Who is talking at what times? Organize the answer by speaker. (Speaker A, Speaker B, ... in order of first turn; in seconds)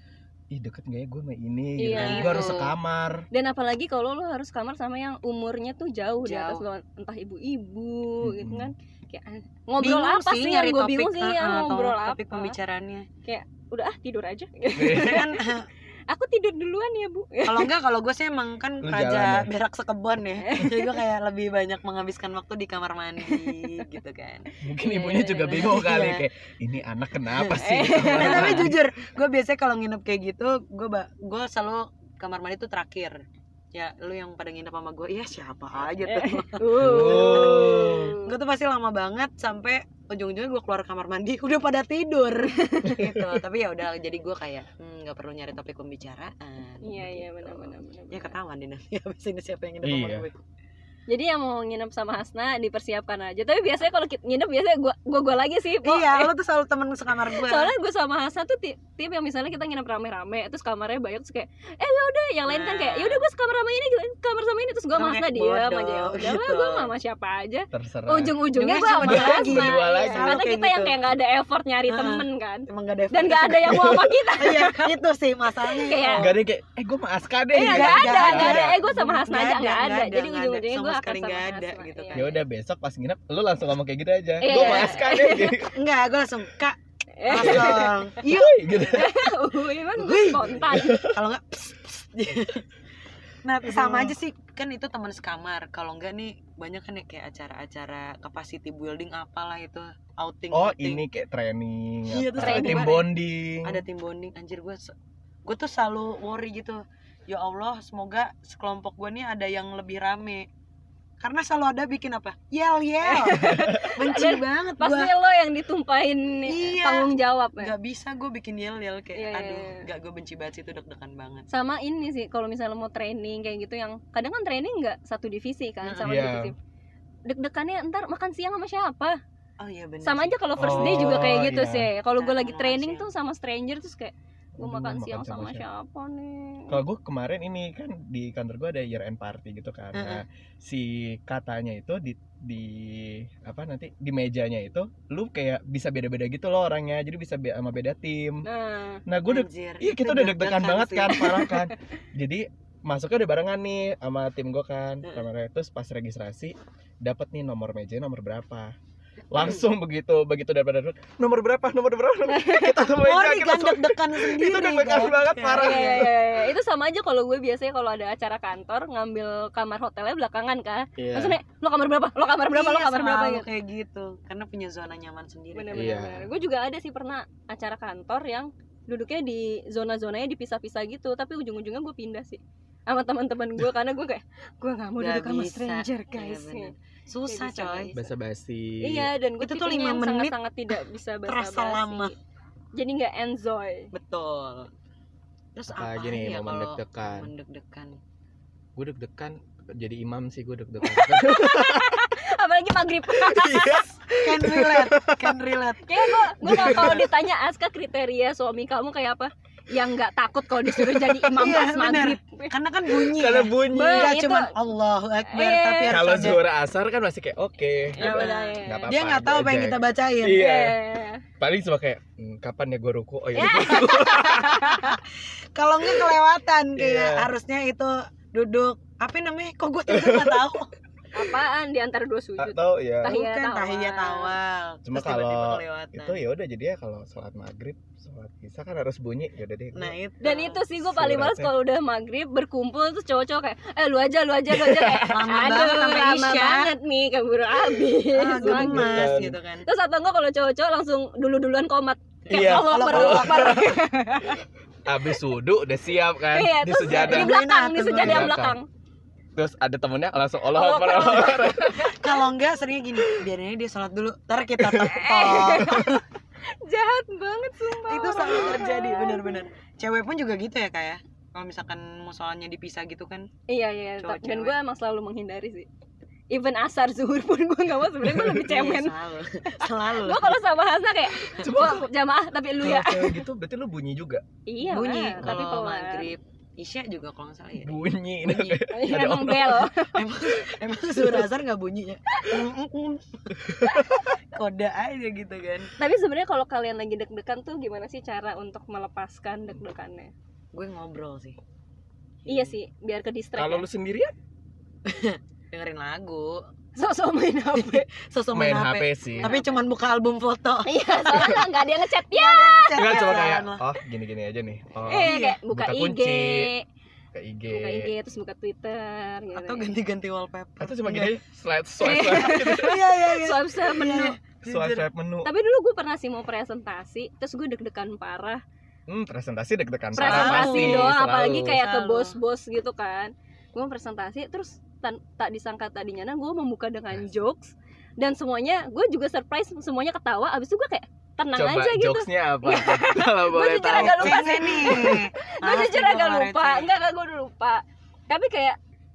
Speaker A: 0.5-3.3, 8.2-8.7, 14.8-15.2, 18.8-19.5, 24.6-28.8, 36.8-38.2, 42.9-43.2, 49.8-50.2, 67.7-68.4, 69.0-70.4, 73.7-74.1, 76.2-78.8, 82.1-85.8, 87.4-89.1, 90.7-91.2, 93.7-94.1, 100.5-103.8, 126.0-126.5, 130.6-131.9, 134.6-135.6, 136.7-148.5, 149.1-158.7, 159.3-166.1, 171.0-171.4, 175.7-176.3, 187.9-189.1, 195.7-197.3, 198.8-202.0, 203.1-205.4, 206.4-207.0, 210.7-211.1, 213.0-214.2, 215.9-220.8, 221.4-224.8, 226.8-227.3, 229.9-230.5, 232.4-233.1, 234.8-239.9, 240.8-241.5, 244.5-245.1, 248.4-249.4, 252.3-253.7, 254.8-257.4, 257.9-258.6, 259.4-262.0, 264.6-264.9, 278.0-278.4, 281.4-281.9, 282.6-284.2, 287.6-289.7, 293.5-293.9, 303.4-304.1, 308.3-309.3, 312.8-316.5, 317.1-317.9, 320.6-322.8, 324.4-325.3, 328.9-331.6, 341.4-345.0
Speaker B: 1.8-2.6, 3.3-12.6, 13.2-15.6, 16.1-17.7, 20.4-21.0, 23.2-23.8, 24.8-25.9, 27.5-28.7, 36.0-38.4, 42.6-43.0, 46.8-48.4, 51.1-56.3, 57.3-74.9, 75.7-76.3, 77.5-82.3, 84.4-85.6, 87.2-88.1, 88.9-91.1, 102.4-103.0, 113.0-117.7, 119.1-119.8, 121.5-126.5, 127.3-129.2, 130.0-136.8, 148.4-149.0, 151.1-151.7, 162.3-162.9, 165.6-173.5, 175.5-186.7, 187.2-188.0, 188.8-192.1, 192.8-193.9, 200.8-203.9, 205.8-212.5, 213.7-214.5, 215.3-216.1, 217.9-218.9, 220.3-221.2, 223.3-224.9, 231.1-234.3, 240.2-254.4, 256.3-258.6, 260.5-261.8, 264.7-269.4, 273.5-275.7, 276.3-278.9, 279.6-283.2, 284.5-286.1, 288.7-290.3, 292.1-292.4, 293.6-294.1, 295.8-300.1, 302.3-303.6, 306.8-307.9, 309.2-309.6, 310.6-313.1, 314.9-316.6, 317.5-319.7, 321.8-324.1, 325.2-328.4, 329.9-348.6
Speaker C: 1.9-2.7, 6.2-6.6, 9.8-13.1, 14.9-15.7, 17.4-24.5, 25.5-26.2, 28.1-33.2, 33.7-50.4, 55.8-57.7, 62.5-63.2, 64.9-66.9, 68.5-71.0, 71.9-76.3, 77.6-82.4, 84.5-85.0, 85.7-89.1, 90.0-92.6, 93.4-101.0, 102.1-103.1, 103.6-104.9, 105.4-110.5, 111.2-115.1, 116.5-121.5, 125.8-126.2, 129.6-131.3, 132.2-133.1, 139.9-140.2, 149.2-151.3, 163.0-166.1, 172.5-175.9, 185.0-187.9, 189.4-190.7, 191.2-192.1, 193.9-194.7, 195.6-198.0, 204.2-205.9, 206.5-207.0, 211.3-216.4, 218.0-220.4, 223.5-225.0, 225.6-230.7, 233.1-236.2, 239.8-240.6, 245.0-246.7, 248.1-249.7, 252.3-253.7, 256.9-258.4, 261.8-266.0, 267.9-273.3, 274.0-274.5, 278.4-280.4, 284.6-288.6, 289.9-295.7, 300.5-301.4, 302.2-302.5, 304.9-306.4, 307.6-311.4, 312.1-313.6, 315.0-315.4, 319.3-321.1, 322.2-324.9, 330.0-330.9, 331.6-332.2, 343.7-346.7